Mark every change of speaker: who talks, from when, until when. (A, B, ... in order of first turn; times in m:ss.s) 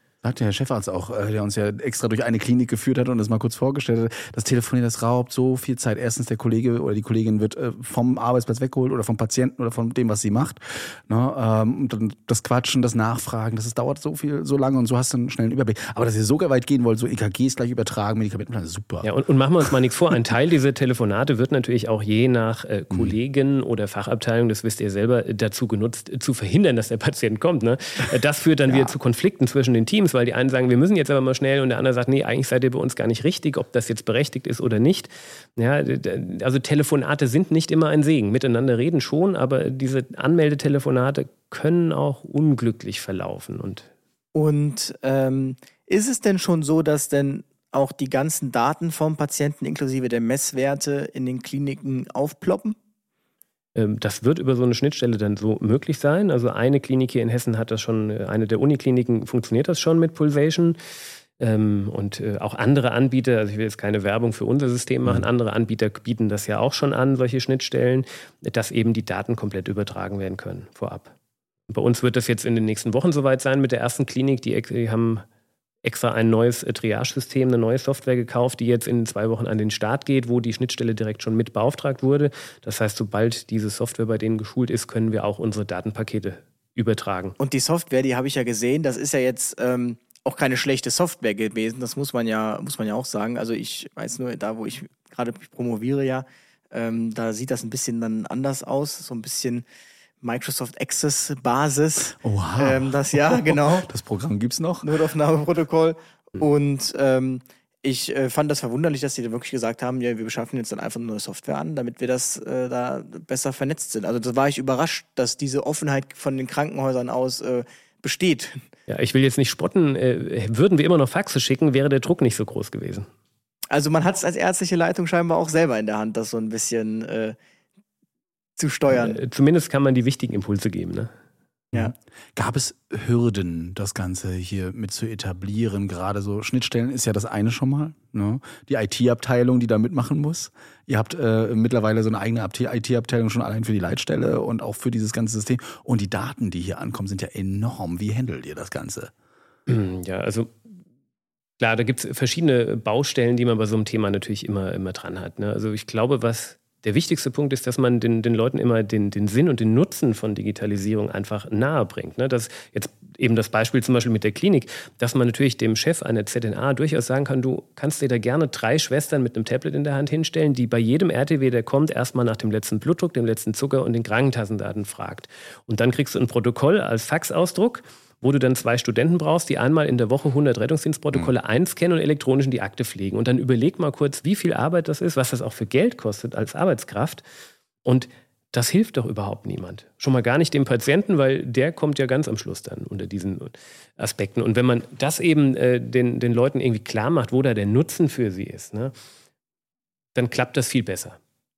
0:00.2-0:19.1 A
0:19.0-0:43.9 B
0:22.9-0:23.2 A
0:28.7-0:28.9 A
0:44.3-0:52.8 C
0:53.7-1:00.8 B
1:01.4-1:11.1 B
1:11.7-1:15.2 B
1:15.8-1:27.4 B
1:27.4-1:39.6 C
1:40.2-1:43.9 C
1:42.1-1:44.9 A
1:44.8-1:58.6 C
1:58.9-2:03.1 B
2:03.7-2:07.4 C
2:08.6-2:09.2 C
2:08.9-2:11.1 B
2:11.7-2:29.1 A
2:29.7-2:30.5 B
2:31.6-3:07.2 B
3:07.8-3:18.9 B
3:20.1-3:21.2 B